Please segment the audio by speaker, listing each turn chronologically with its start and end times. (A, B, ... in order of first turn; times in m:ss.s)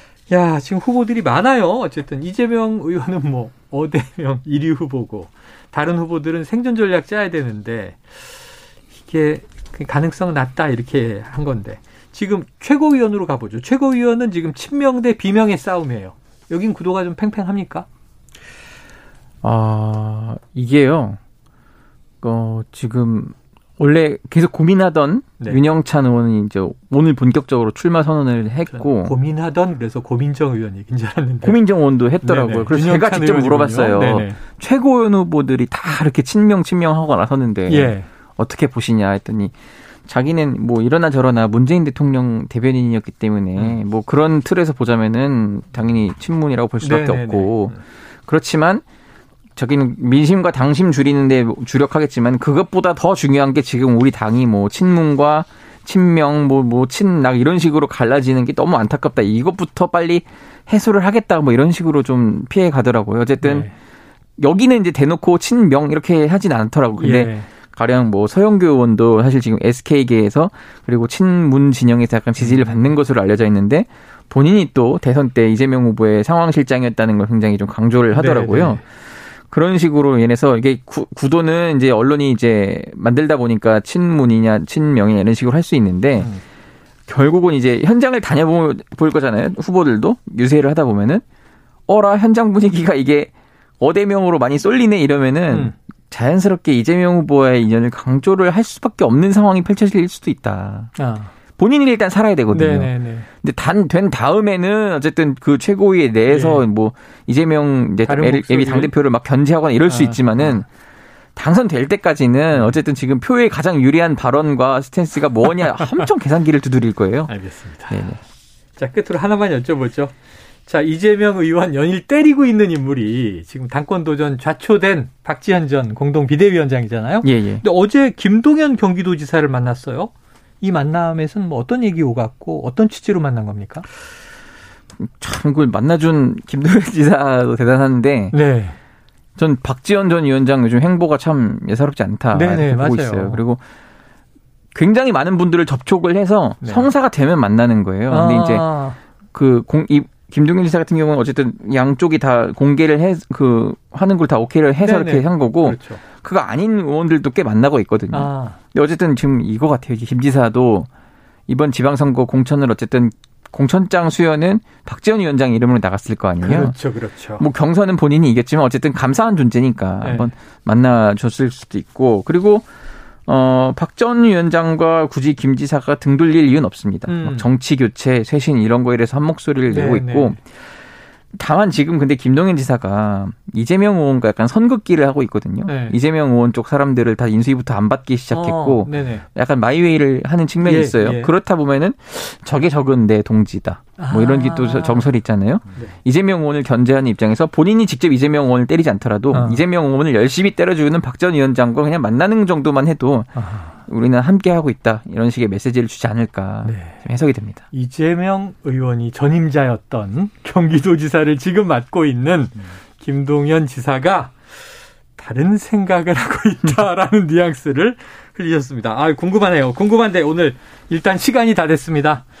0:00.3-0:17.9 A
0:19.4-0:21.2 B
0:22.2-0:29.1 B
0:28.7-0:31.6 A
0:31.4-0:39.5 B
0:32.2-0:34.4 A
0:37.7-0:38.1 A
0:40.0-0:48.8 B
0:46.8-0:47.8 A
0:49.6-1:03.7 B
1:03.4-1:03.7 A
1:04.4-1:18.9 B
1:07.0-1:07.5 A
1:12.4-1:12.8 A
1:18.1-1:18.8 A
1:19.5-1:26.3 B
1:27.1-1:31.2 B
1:31.9-1:40.9 B
1:35.5-1:35.7 A
1:41.0-1:41.3 A
1:41.6-1:50.7 B
1:42.5-1:43.3 A
1:46.3-1:46.6 A
1:48.0-1:48.9 A
1:49.9-1:50.5 A
1:51.4-1:57.3 B
1:55.6-1:56.0 A
1:57.3-1:58.0 A
1:57.9-1:58.2 B
1:58.8-2:00.1 A
2:00.7-2:13.9 A
2:07.2-2:07.6 B
2:15.0-2:18.4 B
2:18.3-2:18.8 A
2:19.4-2:23.6 B
2:22.3-2:23.4 A
2:24.7-2:28.6 B
2:26.6-2:26.9 A
2:28.1-2:29.0 A
2:29.3-2:40.9 B
2:34.8-2:36.0 A
2:38.1-2:38.6 A
2:41.5-2:46.8 B
2:46.4-2:47.4 A
2:47.4-2:52.7 B
2:50.0-2:50.3 A
2:53.3-3:00.5 B
2:57.1-2:57.5 A
2:59.7-3:00.4 A
3:01.3-3:27.6 B
3:05.6-3:06.0 A
3:08.3-3:09.2 A
3:10.6-3:11.3 A
3:14.0-3:15.1 A
3:19.3-3:19.6 A
3:23.3-3:23.8 A
3:26.6-3:27.0 A
3:27.7-3:34.5 A
3:35.2-3:42.2 A